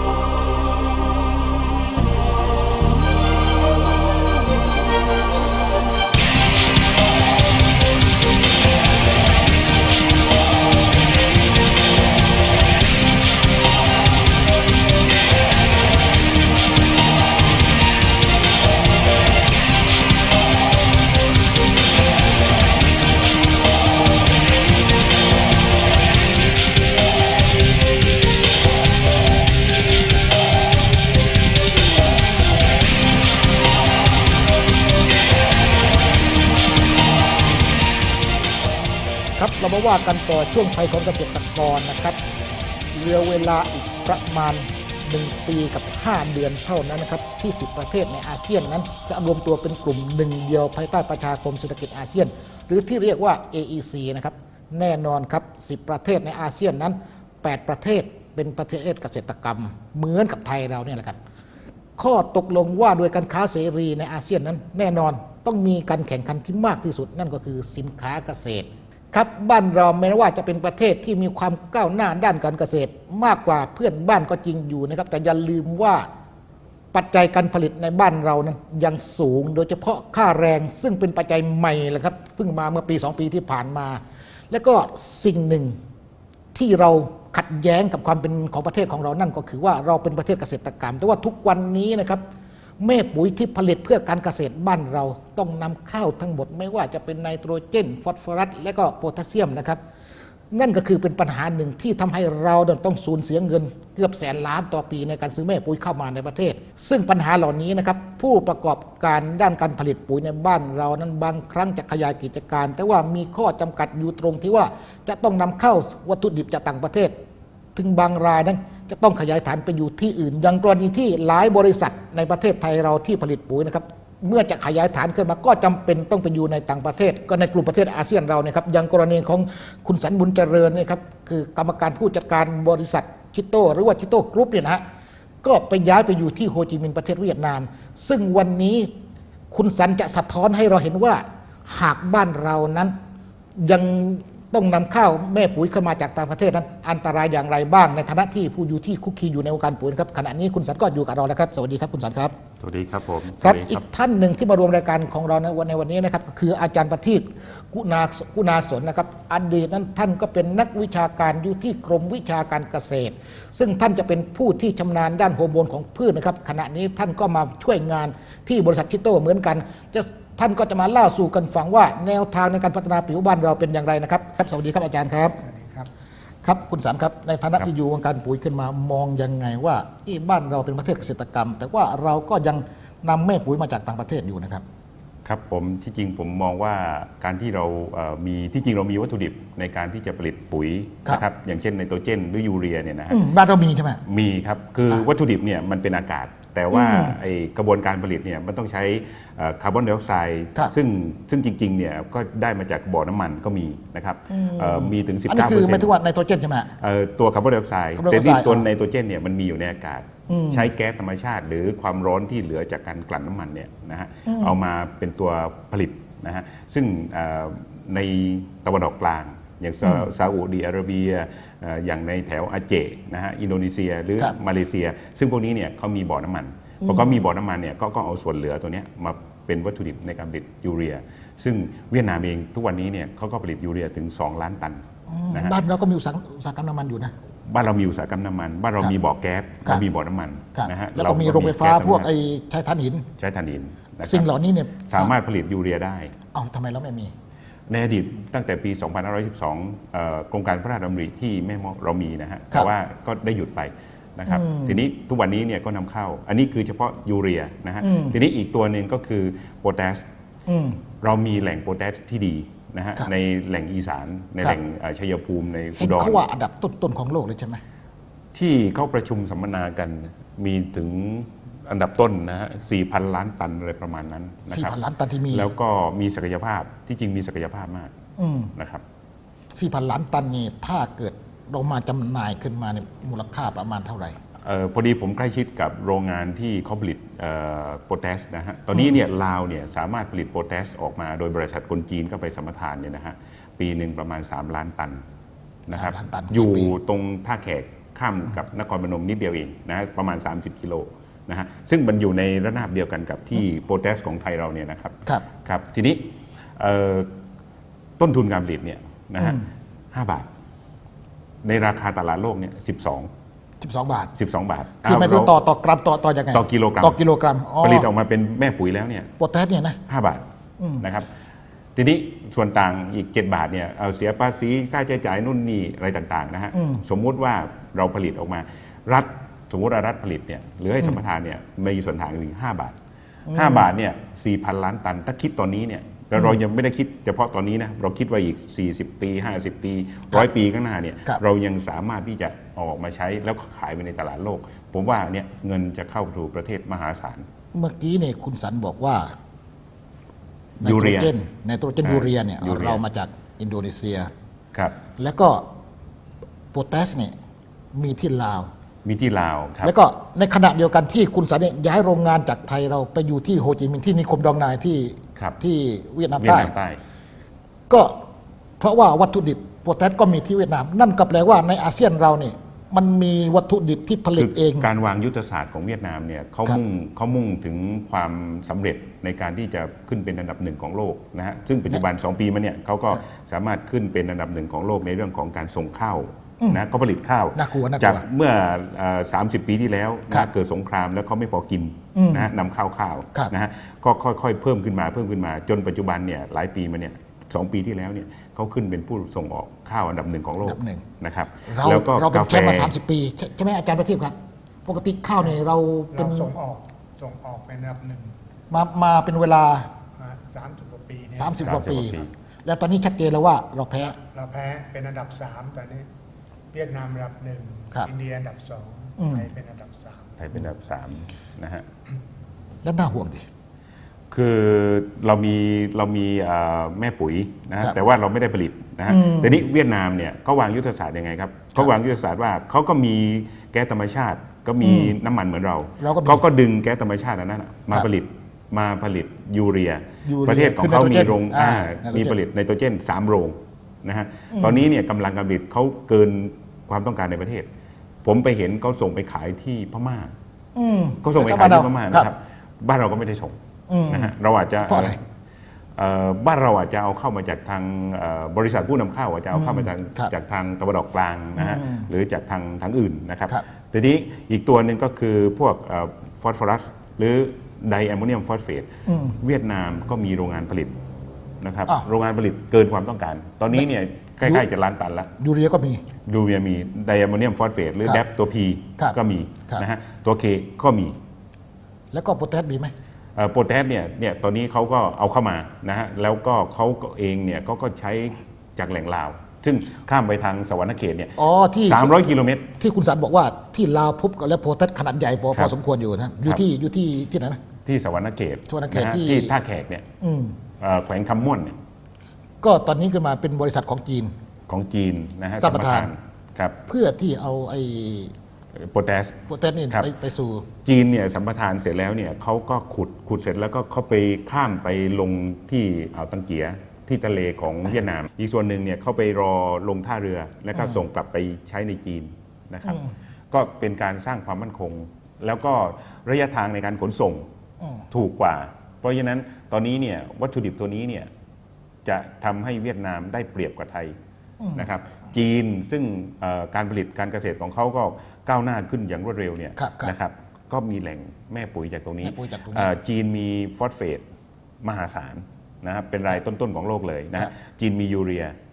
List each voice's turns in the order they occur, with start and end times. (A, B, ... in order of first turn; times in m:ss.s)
0:39.4-0:42.2 A
0:42.9-1:01.2 A
1:02.0-1:16.1 A
1:16.9-1:25.8 A
1:26.5-1:32.2 A
1:32.8-1:39.8 A
1:40.5-1:57.2 A
1:57.8-2:14.8 A
2:15.4-2:18.9 A
2:19.5-2:22.9 A
2:23.6-2:32.3 A
2:32.6-2:33.8 B
2:33.4-2:55.4 A
2:55.6-2:55.9 C
2:56.4-3:04.6 A
3:05.2-3:13.2 B
3:13.1-3:14.0 A
3:14.0-3:25.9 B
3:16.7-3:17.2 A
3:24.3-3:26.7 A
3:26.8-3:55.6 B
3:28.0-3:28.7 A
3:30.3-3:30.7 A
3:34.3-3:34.6 A
3:39.8-3:40.1 A
3:46.8-3:47.1 A
3:55.1-3:57.1 A
3:57.5-4:02.1 B
4:00.5-4:03.1 A
4:03.2-4:04.3 B
4:04.0-4:05.1 A
4:04.8-4:06.1 B
4:06.3-4:07.1 A
4:07.7-4:20.0 B
4:14.3-4:14.8 A
4:17.8-4:18.2 A
4:20.5-4:20.8 A
4:21.0-4:26.2 B
4:25.8-4:27.6 A
4:28.3-4:34.8 B
4:34.5-4:35.5 A
4:35.3-4:37.9 B
4:38.2-4:38.5 A
4:38.6-4:38.8 B
4:39.6-4:44.2 A
4:44.4-4:55.0 B
4:55.7-5:07.1 B
4:55.7-4:56.8 A
5:08.0-5:10.3 B
5:09.2-5:09.5 A
5:11.4-5:13.1 B
5:13.6-5:14.1 A
5:14.1-5:15.4 B
5:14.8-5:17.9 A
5:16.3-5:17.0 B
5:17.6-5:19.1 B
5:19.2-5:19.8 A
5:19.9-5:20.2 B
5:20.6-5:20.9 A
5:20.8-5:21.1 B
5:21.8-5:32.8 B
5:26.5-5:26.8 A
5:33.3-5:47.2 B
5:33.3-5:33.7 A
5:47.5-5:49.1 A
5:50.6-5:54.1 A
5:50.6-5:51.1 B
5:51.8-5:52.8 B
5:55.0-5:55.4 A
5:56.5-5:57.1 A
5:57.7-5:58.5 A
5:58.8-5:59.8 B
5:59.6-6:06.5 A
6:06.2-6:06.8 B
6:07.7-6:07.9 A
6:08.6-6:14.7 A
6:14.2-6:42.8 B
6:27.4-6:28.0 A
6:32.0-6:32.3 A
6:40.4-6:40.8 A
6:41.5-6:46.4 A
6:45.9-6:48.1 C
6:48.5-6:49.7 A
6:50.1-6:51.4 C
6:51.2-6:54.0 A
6:51.4-6:52.1 B
6:54.2-6:55.8 C
6:56.5-7:00.0 C
6:59.0-6:59.3 A
7:00.2-7:01.7 B
7:02.6-7:03.2 A
7:04.1-7:27.5 B
7:08.9-7:09.4 A
7:14.6-7:15.0 A
7:15.8-7:16.2 A
7:20.0-7:22.2 A
7:24.3-7:24.7 A
7:28.0-7:30.1 B
7:30.6-7:32.1 A
7:31.0-7:33.4 B
7:33.7-7:34.1 A
7:33.9-7:35.0 B
7:34.7-7:35.0 A
7:35.8-7:50.8 B
7:39.3-7:40.1 A
7:41.4-7:41.9 A
7:48.9-7:49.2 A
7:51.4-7:55.1 B
7:55.2-7:55.8 A
7:56.1-8:01.0 B
8:01.9-8:02.7 A
8:03.2-8:12.5 B
8:11.2-8:12.0 A
8:12.6-8:17.4 A
8:17.6-8:19.8 B
8:18.5-8:19.3 A
8:20.0-8:20.4 A
8:20.6-8:21.6 B
8:22.4-8:24.1 A
8:24.5-8:26.6 B
8:25.4-8:25.9 A
8:26.7-8:28.1 A
8:28.6-8:29.9 B
8:29.3-8:30.5 A
8:30.6-8:47.3 B
8:40.6-8:40.8 A
8:47.9-8:51.1 B
8:51.8-8:53.9 B
8:54.4-8:54.7 A
8:54.6-9:04.0 B
8:59.6-8:59.9 A
9:02.0-9:02.7 A
9:04.6-9:08.4 B